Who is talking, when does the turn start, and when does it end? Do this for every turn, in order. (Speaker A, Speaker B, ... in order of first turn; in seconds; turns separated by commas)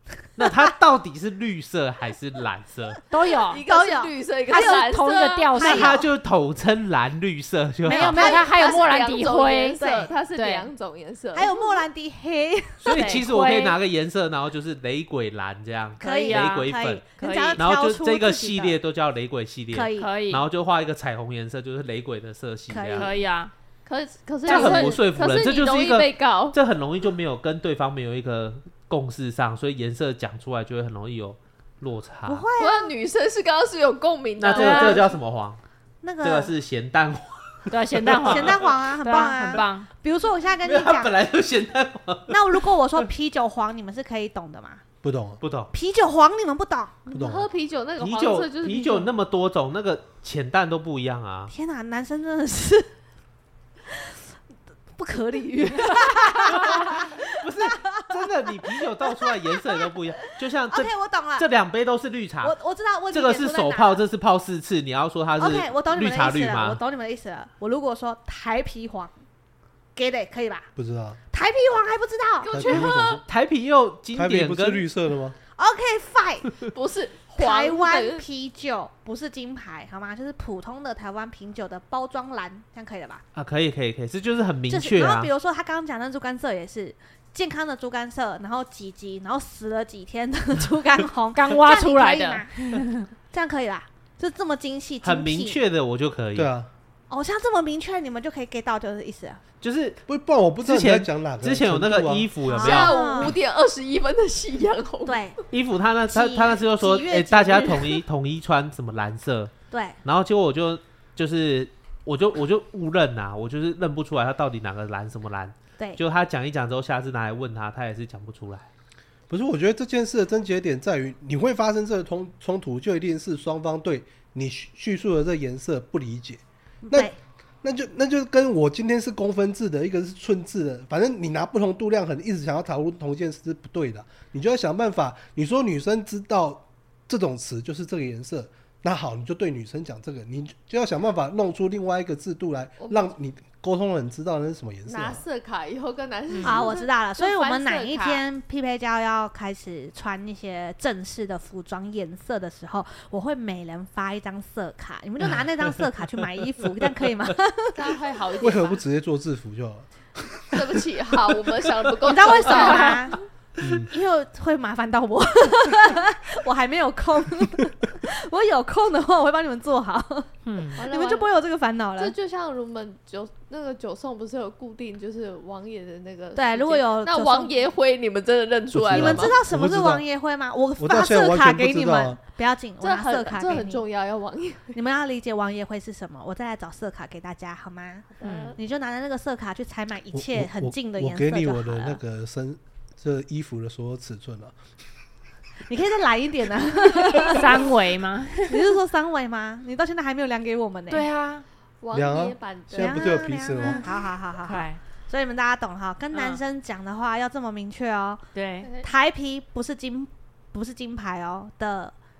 Speaker A: 0.3-3.0, Speaker B: 3.1-3.6, Speaker C: 3.5-5.6, Speaker D: 3.6-5.0, Speaker B: 4.5-6.1, Speaker D: 5.5-6.1, Speaker A: 5.6-8.4, Speaker D: 7.8-8.9, Speaker B: 7.9-9.8, Speaker C: 8.1-11.8, Speaker D: 9.8-10.1, Speaker B: 10.3-10.7, Speaker D: 11.3-13.2, Speaker A: 12.8-17.1, Speaker B: 12.8-13.8, Speaker D: 16.0-18.8, Speaker B: 16.0-17.6, Speaker A: 17.6-23.1, Speaker D: 19.7-20.1, Speaker B: 20.0-20.5, Speaker D: 22.7-23.2, Speaker B: 22.9-23.5, Speaker C: 23.9-26.6, Speaker A: 24.5-32.5, Speaker D: 24.5-24.9, Speaker B: 24.5-24.8, Speaker D: 32.3-32.9, Speaker C: 32.6-35.2, Speaker A: 34.4-35.6, Speaker B: 34.5-35.0, Speaker D: 36.0-36.5, Speaker A: 36.2-38.8, Speaker B: 37.7-39.9, Speaker D: 38.2-41.1, Speaker A: 40.6-42.6, Speaker D: 42.3-44.8, Speaker E: 45.0-45.4, Speaker A: 45.4-45.7, Speaker D: 45.7-47.0, Speaker C: 47.1-49.1, Speaker E: 47.1-47.5, Speaker A: 48.0-51.5, Speaker D: 51.5-52.9, Speaker D: 53.9-54.2, Speaker D: 55.0-59.9, Speaker A: 56.7-62.6, Speaker D: 60.7-61.5, Speaker D: 62.4-64.0, Speaker A: 63.1-66.8, Speaker D: 65.4-69.1, Speaker D: 70.0-70.7, Speaker E: 70.8-71.2, Speaker D: 71.3-72.8, Speaker C: 72.4-73.2, Speaker E: 72.5-73.2, Speaker A: 73.3-74.9, Speaker E: 74.1-75.4, Speaker D: 75.6-76.6, Speaker C: 76.7-78.2, Speaker D: 77.4-83.2, Speaker A: 83.3-85.3, Speaker D: 84.7-95.6, Speaker B: 91.3-93.1, Speaker A: 95.0-96.5, Speaker E: 96.4-96.7, Speaker D: 97.1-99.4, Speaker A: 99.6-100.0, Speaker E: 100.1-102.3, Speaker A: 100.6-103.3, Speaker D: 102.4-103.4, Speaker C: 102.5-105.3, Speaker D: 105.0-105.4, Speaker A: 105.5-109.5, Speaker D: 106.1-108.0, Speaker D: 109.7-110.0, Speaker A: 110.0-118.7, Speaker E: 119.3-145.2, Speaker D: 126.8-127.2, Speaker C: 142.8-143.1, Speaker C: 144.9-148.2, Speaker B: 146.3-146.7, Speaker D: 146.4-158.0, Speaker C: 157.8-158.8, Speaker E: 158.4-161.4, Speaker C: 160.5-163.2, Speaker D: 162.0-170.3, Speaker E: 163.6-163.9, Speaker B: 170.5-170.8, Speaker C: 170.8-171.3, Speaker D: 170.9-172.2, Speaker C: 172.0-179.4, Speaker D: 176.4-177.7, Speaker E: 178.7-180.1, Speaker D: 178.9-183.8, Speaker E: 180.8-182.2, Speaker C: 182.8-184.8, Speaker D: 184.8-192.0, Speaker C: 188.1-188.6, Speaker B: 188.2-188.6, Speaker E: 190.1-194.5, Speaker D: 195.7-197.7, Speaker B: 197.2-198.7, Speaker D: 198.5-201.1, Speaker B: 200.9-201.4, Speaker C: 201.8-203.3, Speaker E: 201.9-203.8, Speaker D: 202.8-208.2, Speaker B: 204.4-204.8, Speaker B: 206.1-206.4, Speaker B: 208.3-208.7, Speaker C: 208.6-208.9, Speaker D: 208.8-211.9